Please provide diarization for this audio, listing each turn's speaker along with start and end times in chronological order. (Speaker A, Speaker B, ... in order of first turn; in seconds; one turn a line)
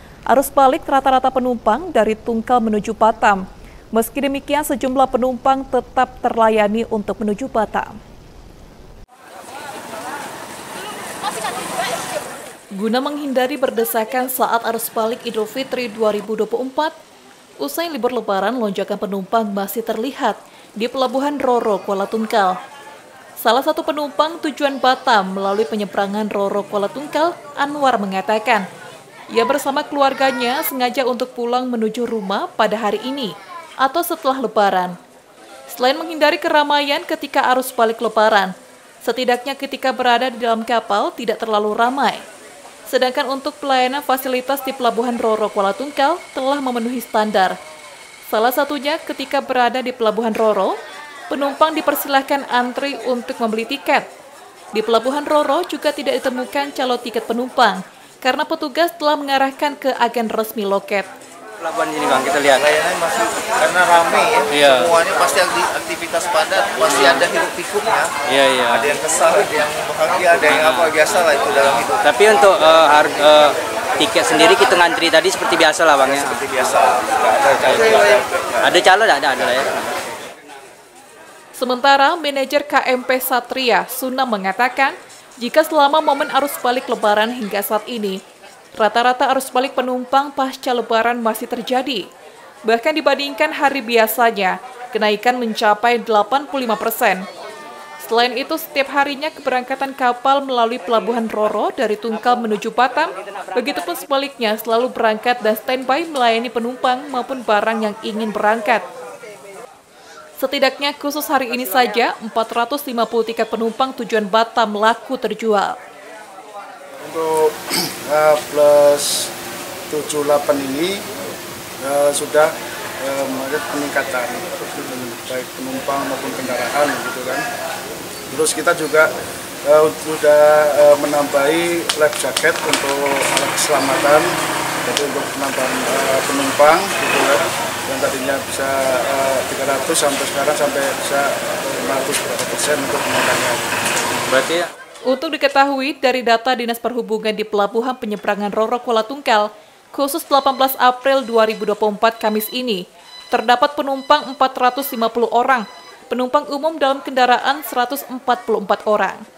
Speaker A: 0.3-8.0
Speaker A: 12.7-16.9
Speaker A: 17.6-22.6
Speaker A: 23.4-28.6
Speaker A: 29.3-35.0
Speaker A: 35.7-42.2
Speaker A: 42.9-47.6
Speaker A: 48.2-50.8
Speaker A: 51.3-54.1
Speaker A: 54.7-61.1
Speaker B: 61.6-62.6
Speaker C: 62.6-68.2
Speaker B: 64.5-64.9
Speaker B: 68.3-68.9
Speaker C: 68.7-72.0
Speaker B: 70.5-71.0
Speaker B: 72.0-76.7
Speaker C: 76.7-78.2
Speaker B: 77.5-79.9
Speaker A: 81.5-88.2
Speaker A: 88.7-92.1
Speaker A: 92.6-97.2
Speaker A: 98.0-108.9
Speaker A: 110.4-115.8
Speaker D: 117.0-119.3
Speaker D: 119.9-121.0
Speaker D: 121.8-127.4
Speaker D: 128.3-129.1
Speaker D: 129.6-143.7
Speaker B: 144.3-144.7
Speaker A: 145.1-159.2